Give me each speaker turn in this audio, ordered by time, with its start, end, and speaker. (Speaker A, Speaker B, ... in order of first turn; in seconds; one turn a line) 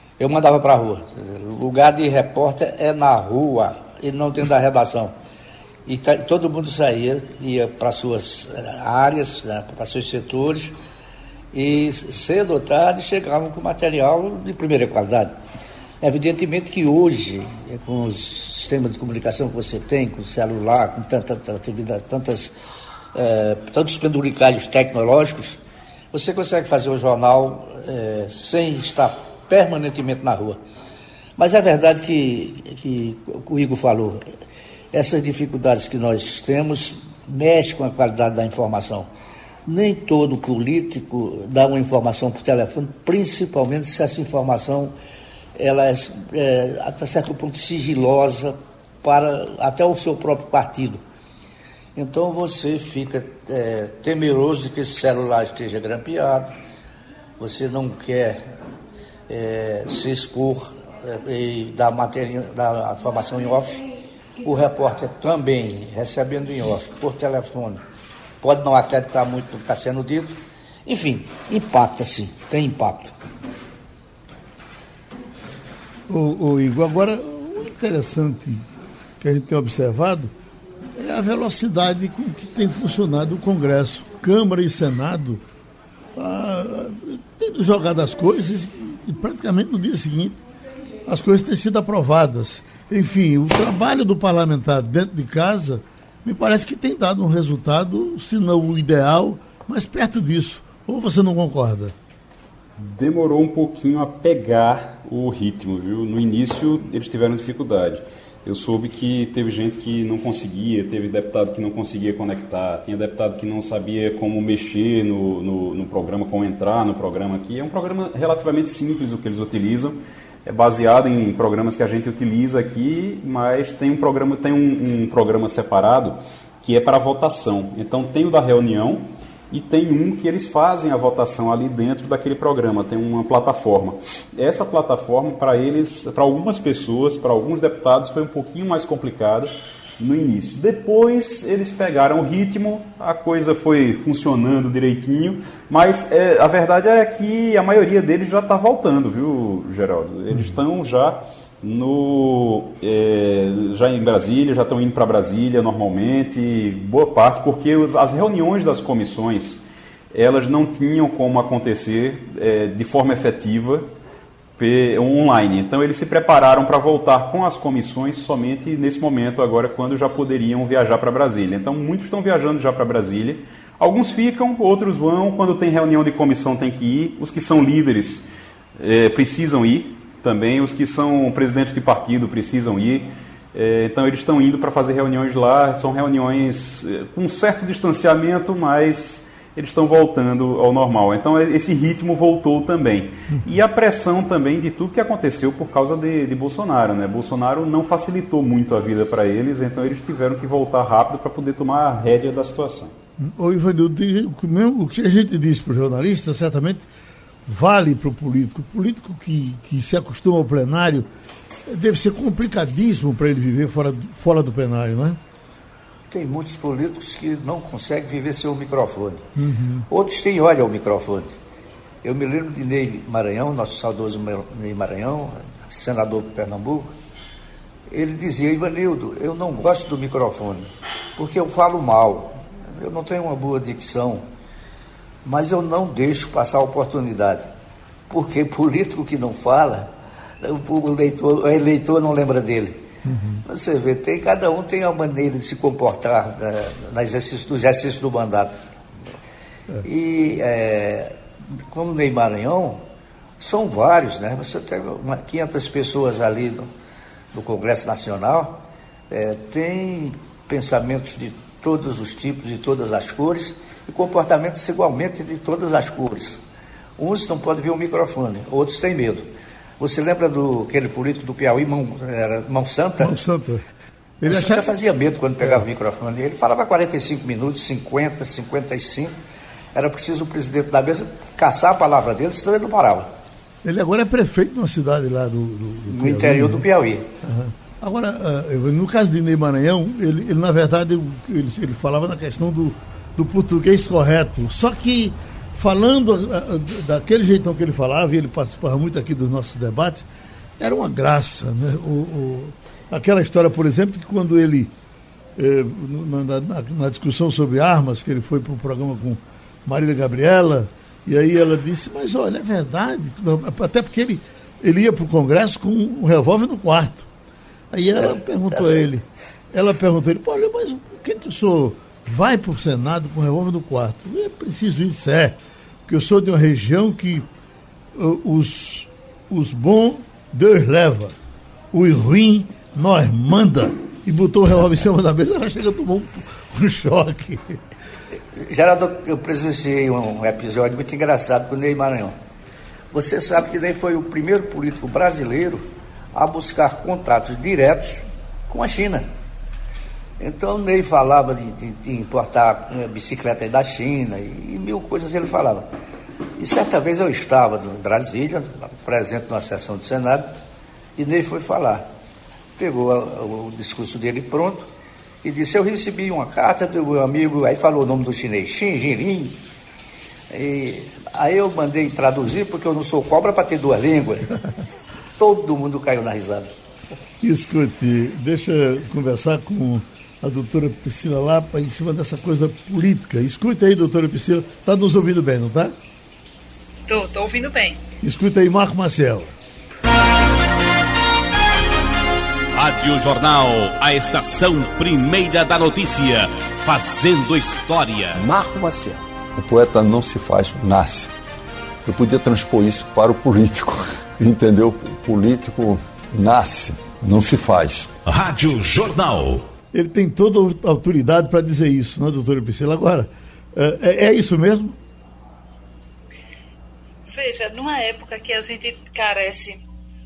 Speaker A: 0.2-5.1
Speaker A: 5.8-10.8
Speaker A: 11.5-15.4
Speaker A: 16.0-22.6
Speaker A: 23.1-25.6
Speaker A: 26.1-30.6
Speaker A: 31.4-34.3
Speaker A: 34.9-39.1
Speaker A: 39.6-44.9
Speaker A: 45.5-51.0
Speaker A: 51.9-56.5
Speaker A: 57.4-58.4
Speaker A: 59.3-63.8
Speaker A: 64.4-67.8
Speaker A: 68.4-73.1
Speaker B: 76.1-78.7
Speaker B: 79.2-80.3
Speaker B: 81.0-85.4
Speaker B: 86.2-90.4
Speaker B: 91.0-101.9
Speaker C: 102.8-159.6
Speaker C: 160.1-163.9
Speaker C: 164.6-178.3
Speaker C: 178.8-202.9
Speaker B: 203.2-206.8
Speaker B: 207.4-211.1
Speaker B: 211.7-215.2
Speaker A: 216.1-219.3
Speaker B: 219.3-219.9
Speaker A: 219.9-221.3
Speaker A: 222.0-226.9
Speaker A: 227.9-234.2
Speaker A: 235.2-237.5
Speaker A: 238.1-239.9
Speaker A: 240.4-242.8
Speaker B: 243.0-243.4
Speaker A: 243.4-248.6
Speaker A: 249.8-251.2
Speaker A: 251.7-252.8
Speaker A: 253.4-256.7
Speaker A: 257.3-266.4
Speaker A: 267.0-269.3
Speaker A: 269.8-273.2
Speaker B: 273.0-273.6
Speaker B: 274.2-274.7
Speaker A: 274.2-279.1
Speaker A: 279.7-283.1
Speaker B: 283.6-286.6
Speaker A: 285.9-287.1
Speaker B: 287.2-300.1
Speaker B: 300.6-304.7
Speaker B: 305.4-317.1
Speaker B: 317.7-327.3
Speaker B: 327.9-331.1
Speaker B: 331.7-337.6
Speaker A: 338.3-342.1
Speaker A: 342.9-349.1
Speaker A: 350.2-355.7
Speaker A: 356.4-360.3
Speaker A: 361.0-361.8
Speaker A: 362.6-364.7
Speaker A: 365.2-369.4
Speaker A: 370.3-374.3
Speaker A: 375.1-376.5
Speaker B: 377.2-385.7
Speaker D: 386.9-387.8
Speaker B: 388.0-389.3
Speaker E: 392.5-398.2
Speaker F: 398.2-401.1
Speaker F: 401.8-408.0
Speaker E: 408.0-409.4
Speaker B: 409.7-414.8
Speaker D: 417.1-419.6